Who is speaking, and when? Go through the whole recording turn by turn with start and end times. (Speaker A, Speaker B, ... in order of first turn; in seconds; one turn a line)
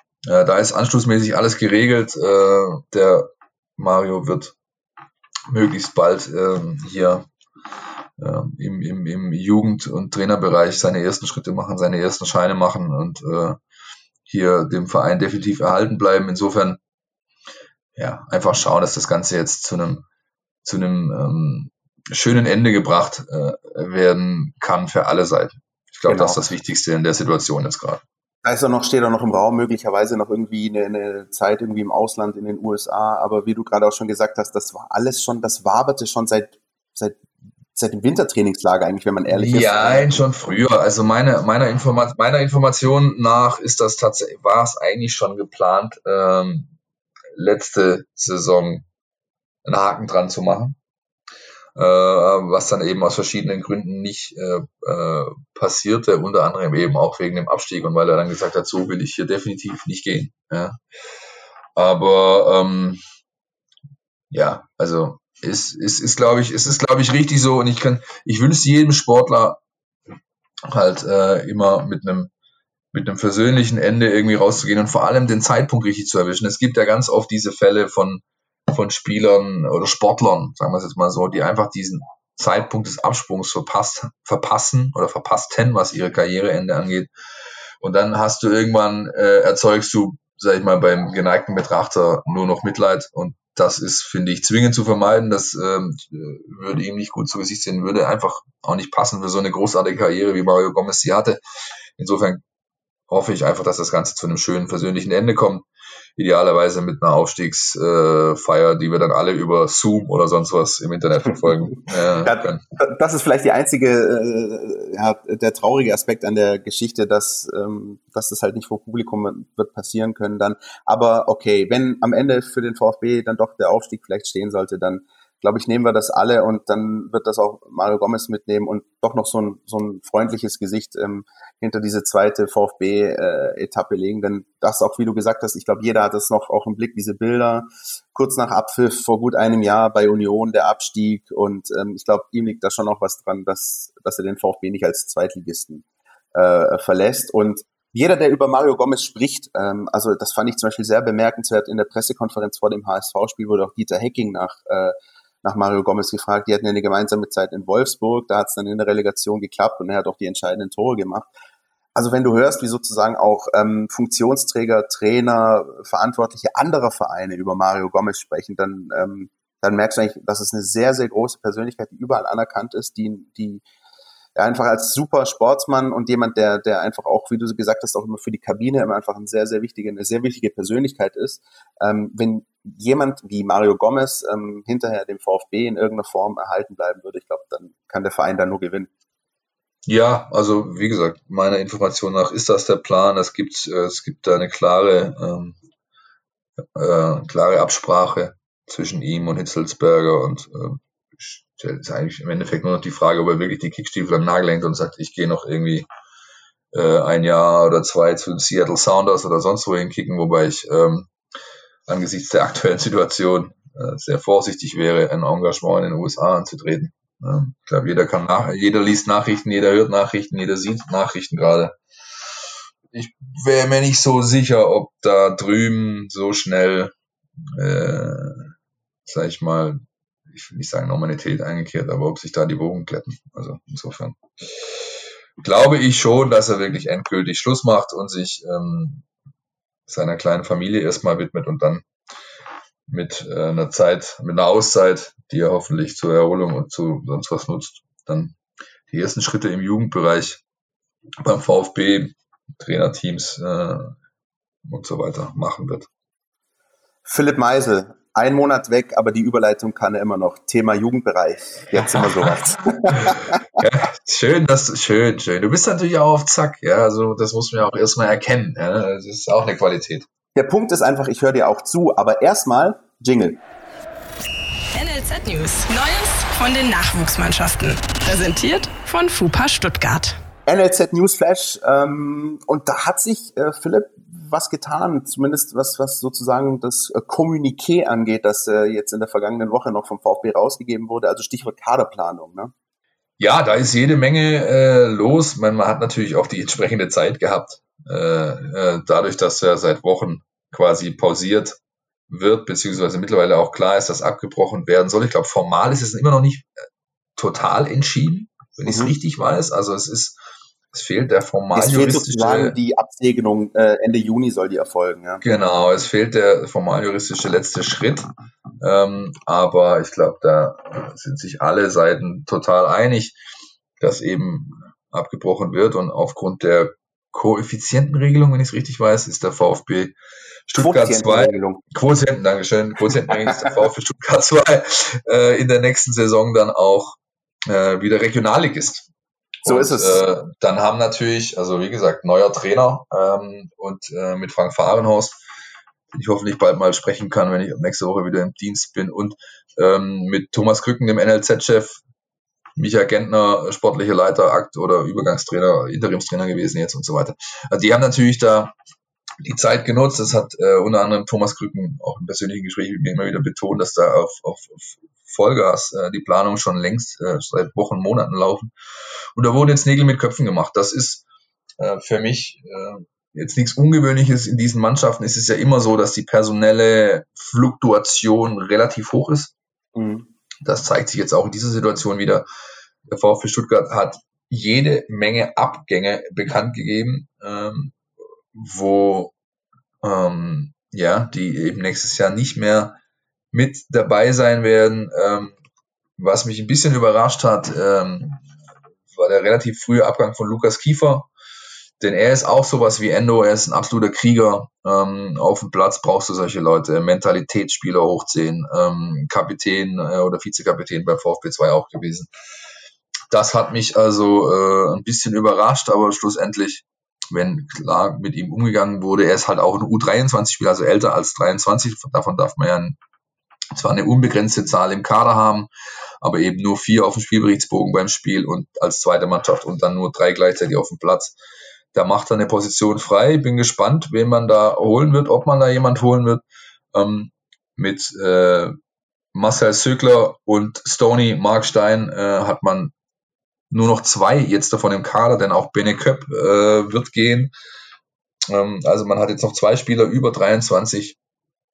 Speaker A: 0.3-4.5
Speaker A: 5.5-7.3
Speaker A: 8.2-13.6
Speaker A: 14.3-16.8
Speaker A: 17.9-20.0
Speaker A: 20.6-28.0
Speaker B: 26.1-26.4
Speaker B: 28.4-37.2
Speaker B: 37.7-40.2
Speaker A: 39.3-46.7
Speaker A: 47.3-48.9
Speaker A: 49.6-50.8
Speaker A: 51.8-60.8
Speaker A: 61.8-63.0
Speaker A: 64.3-69.6
Speaker A: 70.7-72.3
Speaker A: 72.9-87.1
Speaker A: 87.8-101.4
Speaker A: 102.0-102.4
Speaker A: 103.1-112.6
Speaker B: 112.2-161.3
Speaker B: 161.9-173.6
Speaker B: 174.3-188.9
Speaker A: 189.8-195.6
Speaker A: 196.8-205.9
Speaker A: 206.7-211.1
Speaker A: 211.9-221.8
Speaker A: 222.9-226.9
Speaker A: 227.6-228.5
Speaker A: 229.1-239.0
Speaker A: 239.9-241.8
Speaker A: 242.9-248.4
Speaker A: 248.9-250.4
Speaker A: 251.2-253.9
Speaker A: 254.7-255.9
Speaker B: 257.1-263.4
Speaker A: 261.8-270.1
Speaker B: 270.3-273.4
Speaker C: 274.7-280.2
Speaker B: 280.4-292.5
Speaker A: 293.2-301.6
Speaker A: 302.1-306.5
Speaker A: 307.2-310.2
Speaker B: 308.6-308.9
Speaker A: 310.7-312.6
Speaker B: 311.5-315.2
Speaker A: 315.2-323.2
Speaker A: 323.8-329.9
Speaker A: 330.5-338.9
Speaker B: 330.6-331.6
Speaker A: 339.4-345.2
Speaker B: 339.4-340.0
Speaker A: 345.9-351.8
Speaker A: 352.6-358.5
Speaker A: 359.2-368.5
Speaker A: 369.1-371.0
Speaker A: 371.6-379.3
Speaker B: 379.7-380.1
Speaker A: 380.4-382.2
Speaker A: 382.9-387.8
Speaker A: 388.3-389.1
Speaker A: 389.8-392.8
Speaker A: 393.3-395.4
Speaker A: 396.0-398.2
Speaker A: 398.9-401.1
Speaker A: 401.8-412.1
Speaker A: 413.1-422.8
Speaker A: 423.5-425.5
Speaker A: 426.0-431.1
Speaker A: 431.7-438.6
Speaker A: 439.1-442.7
Speaker A: 443.5-447.3
Speaker A: 448.3-451.0